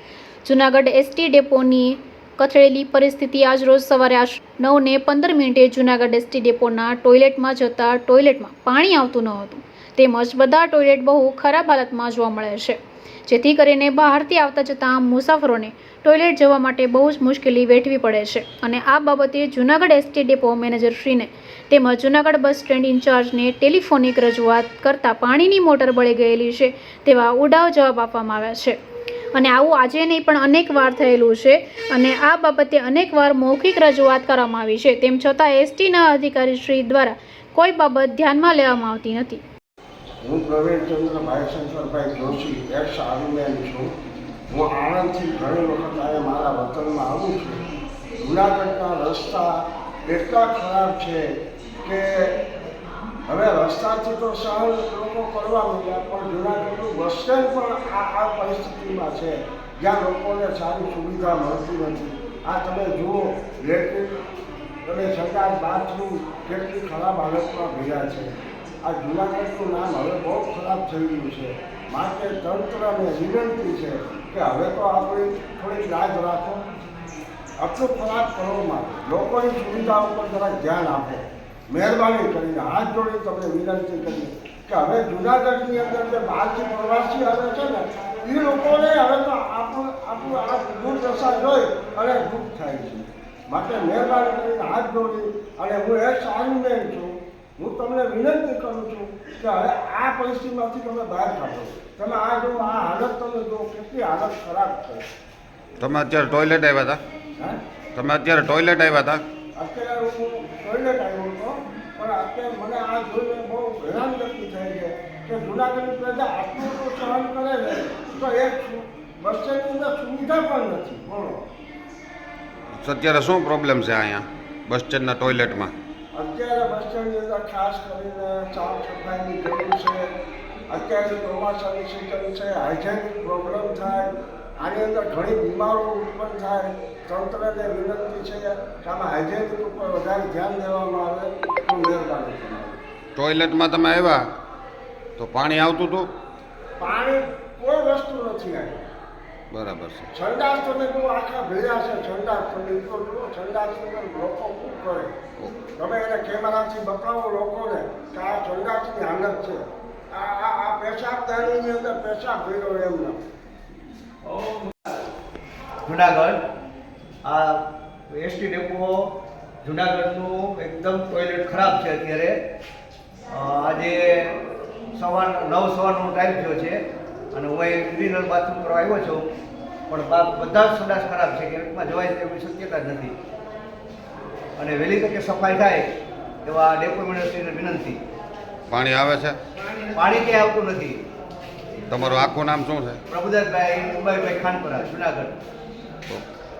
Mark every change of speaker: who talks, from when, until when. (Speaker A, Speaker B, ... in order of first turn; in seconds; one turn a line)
Speaker A: 0.4-28.8
Speaker A: 29.3-39.4
Speaker B: 40.2-43.9
Speaker B: 44.5-47.6
Speaker B: 48.2-51.3
Speaker B: 51.8-52.3
Speaker B: 53.3-64.1
Speaker B: 64.8-68.3
Speaker B: 68.8-76.6
Speaker B: 77.6-105.0
Speaker C: 105.8-107.0
Speaker C: 107.9-109.2
Speaker B: 109.5-121.4
Speaker C: 122.8-125.7
Speaker B: 126.1-130.1
Speaker B: 130.7-142.8
Speaker C: 143.2-144.2
Speaker C: 145.2-146.1
Speaker B: 146.8-148.8
Speaker C: 149.5-150.1
Speaker B: 150.1-155.1
Speaker B: 155.8-163.2
Speaker D: 165.8-166.4
Speaker D: 167.2-172.4
Speaker D: 173.3-174.4
Speaker D: 174.9-176.8
Speaker D: 177.3-179.3
Speaker D: 179.9-183.2
Speaker D: 184.6-185.9
Speaker D: 186.4-188.0
Speaker C: 188.7-189.3
Speaker D: 189.9-191.0
Speaker C: 191.9-193.0
Speaker D: 193.1-195.3